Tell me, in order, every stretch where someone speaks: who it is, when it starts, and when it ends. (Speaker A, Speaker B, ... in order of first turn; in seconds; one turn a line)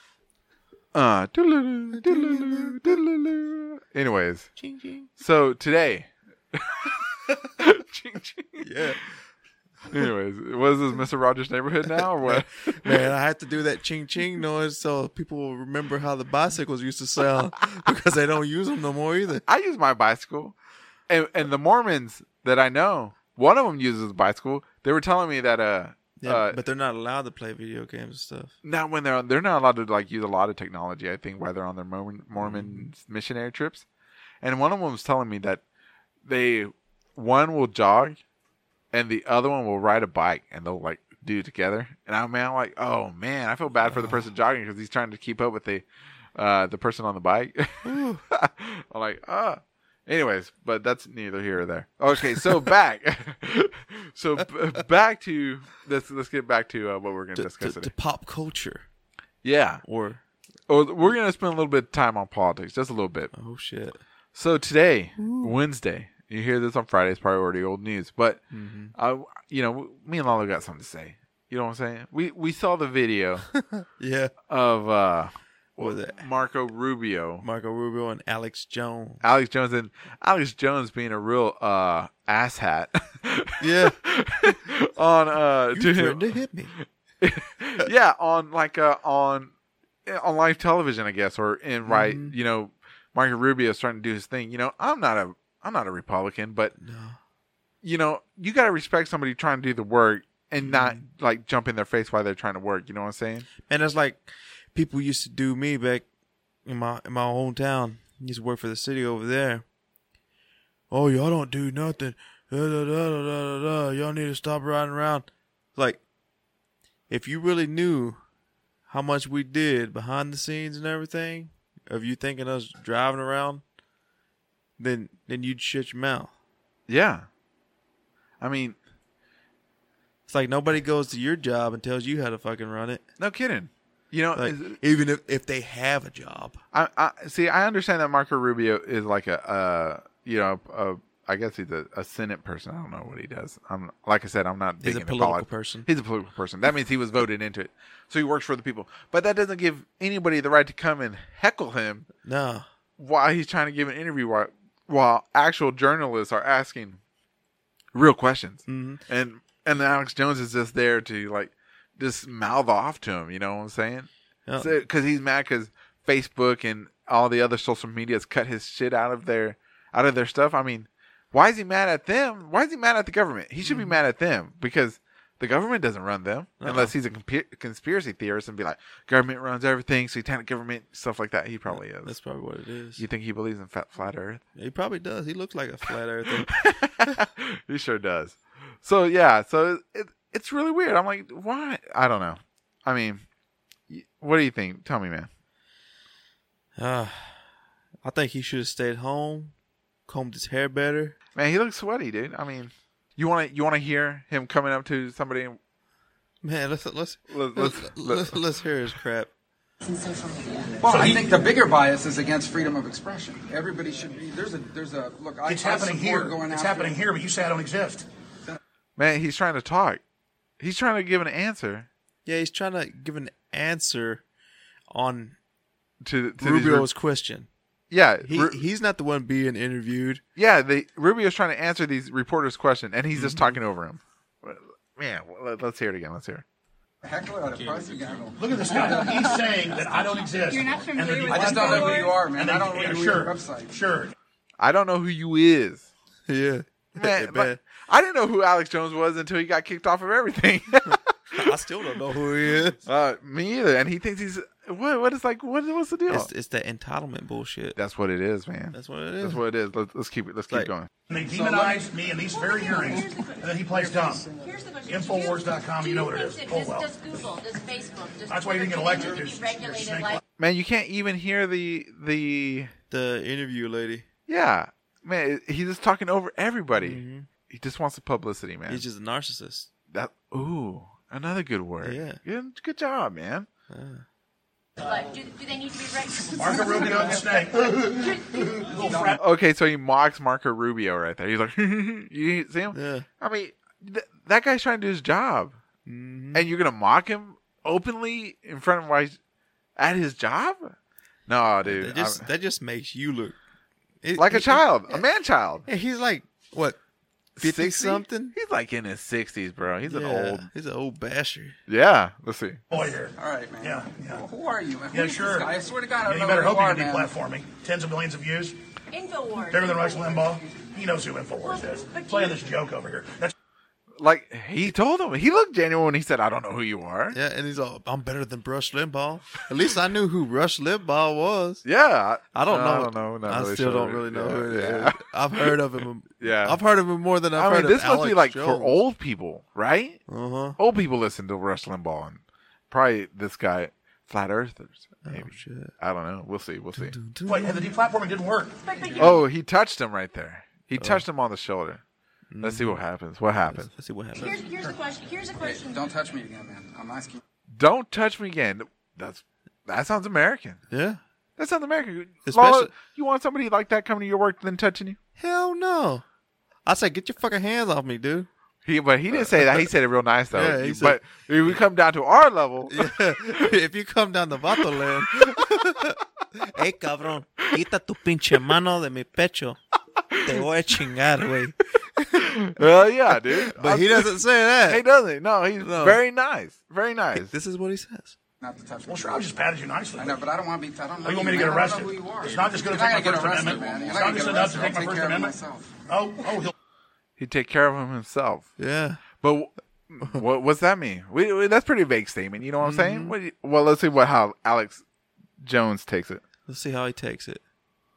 Speaker A: 0.9-4.5
Speaker B: 1.9-3.0
Speaker B: 4.6-5.1
Speaker A: 5.2-8.8
Speaker B: 8.6-9.0
Speaker A: 9.9-13.1
Speaker B: 11.9-19.4
Speaker A: 19.5-20.5
Speaker A: 21.1-26.6
Speaker B: 26.2-28.5
Speaker A: 28.6-33.9
Speaker B: 32.4-32.9
Speaker A: 34.4-35.6
Speaker A: 36.3-38.2
Speaker A: 38.9-57.9
Speaker B: 43.9-44.3
Speaker B: 47.8-48.2
Speaker B: 57.4-58.9
Speaker A: 59.4-59.8
Speaker B: 59.8-60.2
Speaker A: 60.7-63.3
Speaker B: 63.3-64.0
Speaker A: 64.3-68.4
Speaker B: 65.2-65.6
Speaker B: 68.5-68.9
Speaker A: 69.0-73.5
Speaker B: 73.5-74.3
Speaker A: 74.5-77.5
Speaker B: 75.8-76.2
Speaker B: 77.4-79.2
Speaker A: 79.2-89.5
Speaker B: 83.6-84.0
Speaker B: 85.7-86.7
Speaker A: 90.0-96.7
Speaker B: 91.8-92.3
Speaker B: 96.8-97.2
Speaker A: 97.8-103.5
Speaker B: 100.6-101.0
Speaker B: 103.6-106.0
Speaker B: 106.7-109.7
Speaker B: 110.9-116.0
Speaker B: 117.1-118.2
Speaker B: 118.9-123.6
Speaker B: 124.8-126.3
Speaker A: 126.9-127.3
Speaker A: 128.4-128.8
Speaker B: 130.3-133.0
Speaker A: 133.2-134.8
Speaker B: 134.3-136.6
Speaker A: 136.7-152.1
Speaker B: 144.8-145.9
Speaker B: 152.2-152.7
Speaker A: 153.0-157.0
Speaker A: 157.9-182.2
Speaker B: 158.7-159.0
Speaker B: 164.5-164.8
Speaker B: 173.6-174.0
Speaker B: 176.6-176.9
Speaker B: 181.7-183.0
Speaker A: 183.0-184.4
Speaker B: 184.6-186.5
Speaker A: 186.4-193.2
Speaker A: 193.9-195.3
Speaker B: 196.8-197.4
Speaker B: 198.0-199.5
Speaker B: 200.1-201.2
Speaker A: 201.4-205.6
Speaker B: 206.4-209.3
Speaker A: 207.3-208.4
Speaker C: 210.7-217.0
Speaker D: 210.9-211.4
Speaker D: 215.5-218.1
Speaker A: 219.0-220.0
Speaker A: 220.6-221.9
Speaker B: 222.2-224.2
Speaker B: 224.9-225.4
Speaker A: 226.0-226.9
Speaker B: 226.4-227.5
Speaker A: 227.9-228.6
Speaker B: 228.2-230.2
Speaker A: 230.4-236.4
Speaker B: 233.1-233.6
Speaker C: 237.0-239.3
Speaker D: 238.4-244.1
Speaker E: 240.4-242.2
Speaker C: 241.3-243.8
Speaker A: 244.6-245.9
Speaker B: 246.3-247.6
Speaker A: 247.0-251.5
Speaker B: 250.8-252.8
Speaker A: 252.8-256.3
Speaker B: 256.1-257.8
Speaker A: 257.8-260.9
Speaker B: 258.7-259.4
Speaker D: 261.1-264.3
Speaker C: 261.3-261.9
Speaker E: 262.3-270.2
Speaker D: 264.9-266.9
Speaker D: 268.3-270.2
Speaker A: 270.4-272.7
Speaker B: 272.9-274.1
Speaker A: 274.3-278.9
Speaker B: 276.8-277.3
Speaker B: 278.7-279.7
Speaker A: 279.9-283.5
Speaker B: 281.8-282.2
Speaker B: 283.7-284.1
Speaker E: 284.8-288.7
Speaker D: 286.3-289.2
Speaker C: 288.8-289.2
Speaker A: 289.2-295.6
Speaker B: 292.7-293.1
Speaker B: 295.9-296.5
Speaker A: 296.3-299.2
Speaker A: 299.8-300.8
Speaker A: 301.3-302.2
Speaker B: 301.6-303.4
Speaker B: 304.0-305.0
Speaker A: 304.2-305.7
Speaker B: 305.7-306.8
Speaker A: 307.4-310.5
Speaker B: 307.4-308.4
Speaker B: 309.9-311.6
Speaker A: 311.7-312.6
Speaker D: 312.7-314.3
Speaker C: 312.7-317.1
Speaker D: 314.9-315.5
Speaker D: 316.0-318.6
Speaker E: 318.9-320.3
Speaker D: 319.4-323.3
Speaker E: 321.4-322.5
Speaker A: 324.0-327.2
Speaker B: 327.1-331.6
Speaker A: 331.6-335.6
Speaker B: 332.3-338.8
Speaker A: 336.2-336.6
Speaker A: 337.4-340.0
Speaker B: 340.1-340.6
Speaker A: 340.6-347.0
Speaker B: 345.1-345.7
Speaker B: 346.7-347.7
Speaker D: 347.3-349.0
Speaker E: 348.6-349.2
Speaker A: 349.0-351.8
Speaker B: 350.8-351.0
Speaker B: 352.3-352.8
Speaker A: 352.4-353.7
Speaker B: 353.5-354.5
Speaker E: 354.1-355.9
Speaker C: 355.4-357.2
Speaker A: 357.5-360.6
Speaker B: 360.7-361.0
Speaker A: 361.4-365.0
Speaker B: 362.3-362.7
Speaker B: 365.2-366.0
Speaker B: 366.6-368.3
Speaker A: 368.6-373.5
Speaker B: 369.1-369.7
Speaker B: 370.3-371.6
Speaker B: 372.7-379.6
Speaker A: 374.8-375.5
Speaker A: 380.1-380.4
Speaker B: 380.2-384.8
Speaker A: 382.2-387.3
Speaker B: 385.6-386.0
Speaker B: 387.1-388.1
Speaker C: 388.4-389.4
Speaker D: 388.9-390.2
Speaker C: 390.0-395.8
Speaker D: 391.0-396.5
Speaker A: 397.2-398.5
Speaker B: 398.6-399.0
Speaker A: 399.2-404.8
Speaker B: 402.6-403.1
Speaker A: 405.4-406.2
Speaker B: 406.5-407.4